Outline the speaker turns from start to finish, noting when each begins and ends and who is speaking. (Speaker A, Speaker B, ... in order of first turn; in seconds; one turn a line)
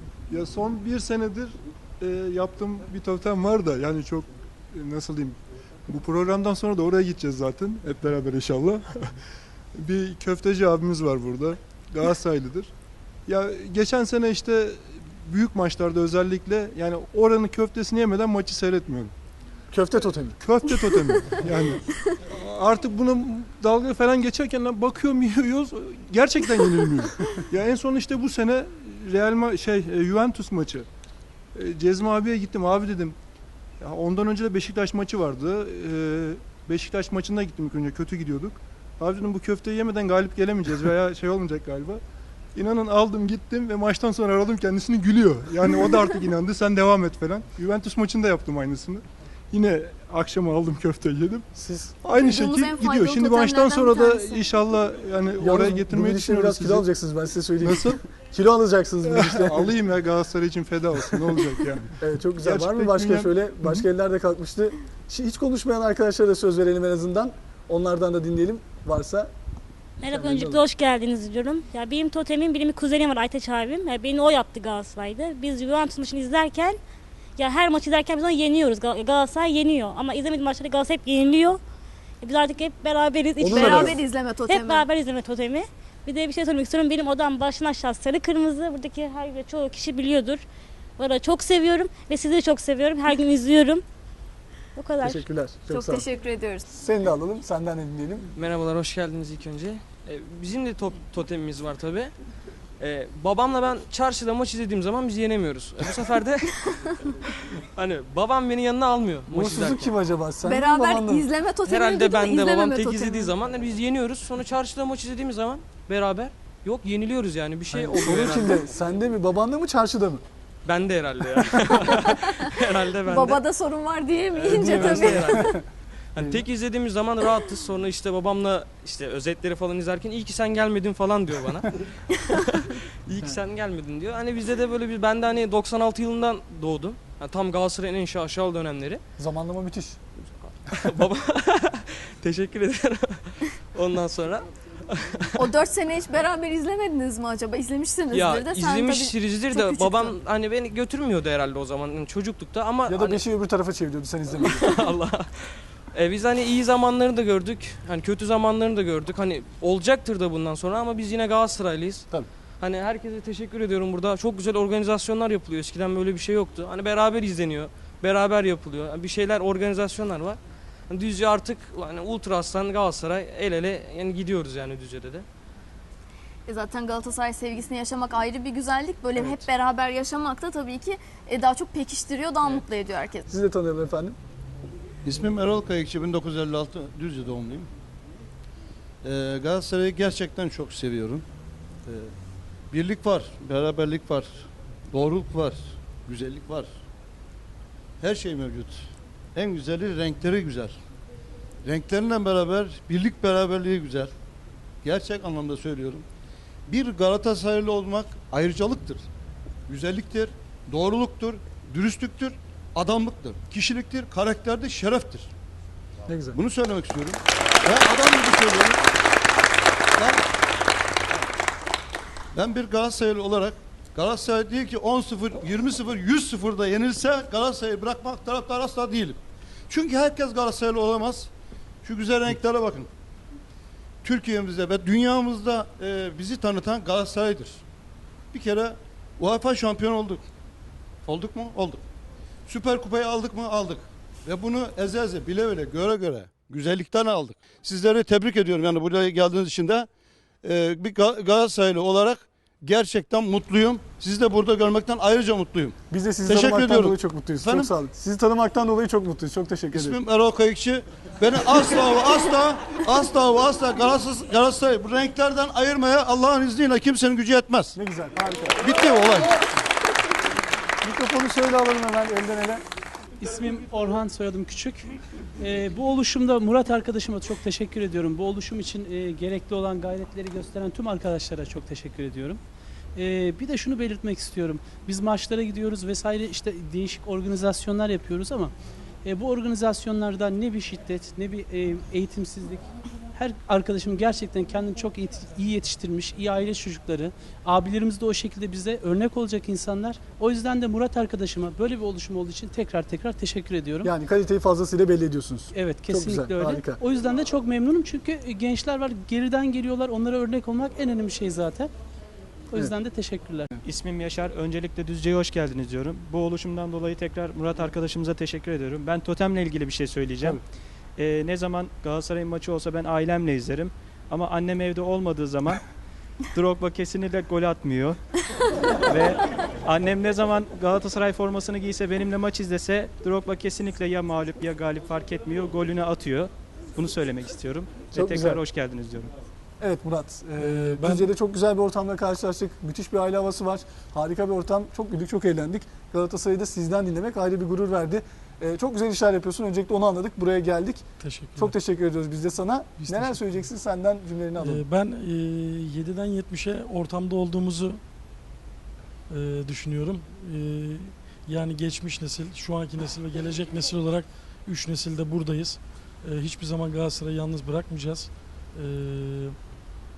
Speaker A: 0.3-9.1
Speaker A: 9.8-12.7
Speaker A: 13.3-19.1
Speaker B: 19.7-20.4
Speaker A: 20.4-30.9
Speaker A: 31.5-33.2
Speaker A: 33.8-42.0
Speaker A: 42.5-51.5
Speaker B: 51.5-52.0
Speaker A: 52.0-56.9
Speaker C: 52.1-54.5
Speaker B: 55.4-59.7
Speaker A: 57.6-58.0
Speaker A: 59.0-63.9
Speaker B: 62.0-69.3
Speaker D: 70.0-76.8
Speaker B: 70.1-70.6
Speaker D: 77.4-81.6
Speaker D: 82.2-90.4
Speaker B: 83.4-84.0
Speaker C: 83.5-84.9
Speaker D: 91.0-93.8
Speaker D: 94.8-95.3
Speaker B: 95.0-96.0
Speaker C: 95.7-96.7
Speaker B: 96.7-98.3
Speaker E: 98.3-102.1
Speaker E: 102.8-106.5
Speaker E: 107.8-109.9
Speaker B: 109.3-111.3
Speaker C: 110.4-113.3
Speaker E: 111.7-118.7
Speaker B: 117.7-120.2
Speaker E: 120.7-123.4
Speaker C: 123.1-125.5
Speaker E: 124.3-125.5
Speaker B: 124.5-125.6
Speaker E: 126.2-131.7
Speaker B: 126.2-126.4
Speaker E: 132.3-139.0
Speaker B: 139.2-140.0
Speaker E: 140.2-145.5
Speaker C: 145.4-150.2
Speaker E: 148.1-153.2
Speaker B: 152.9-154.7
Speaker E: 154.4-162.1
Speaker E: 162.6-175.2
Speaker C: 176.5-183.3
Speaker B: 183.3-184.2
Speaker F: 185.0-187.7
Speaker F: 189.0-191.2
Speaker F: 191.8-192.1
Speaker F: 192.7-196.8
Speaker F: 198.0-200.8
Speaker F: 201.7-204.1
Speaker F: 204.8-206.1
Speaker F: 206.7-209.1
Speaker F: 209.7-215.3
Speaker B: 216.1-216.4
Speaker F: 216.3-218.8
Speaker F: 220.0-220.2
Speaker F: 222.3-231.3
Speaker F: 231.8-232.9
Speaker F: 234.0-237.6
Speaker F: 238.3-240.3
Speaker F: 241.1-241.8
Speaker F: 242.5-249.9
Speaker F: 250.4-257.7
Speaker B: 255.9-260.0
Speaker F: 259.7-267.8
Speaker B: 267.8-268.7
Speaker F: 268.6-269.3
Speaker B: 270.8-272.6
Speaker G: 273.2-282.4
Speaker G: 282.9-288.5
Speaker G: 289.1-303.9
Speaker B: 303.8-306.8
Speaker G: 305.5-311.7
Speaker G: 312.5-313.5
Speaker H: 313.6-320.4
Speaker H: 321.0-325.6
Speaker H: 326.3-328.0
Speaker H: 328.9-339.1
Speaker B: 337.9-338.4
Speaker B: 339.6-350.8
Speaker I: 340.4-341.1
Speaker I: 351.0-351.6
Speaker B: 351.4-354.6
Speaker I: 352.8-353.2
Speaker I: 354.4-357.8
Speaker I: 359.1-369.4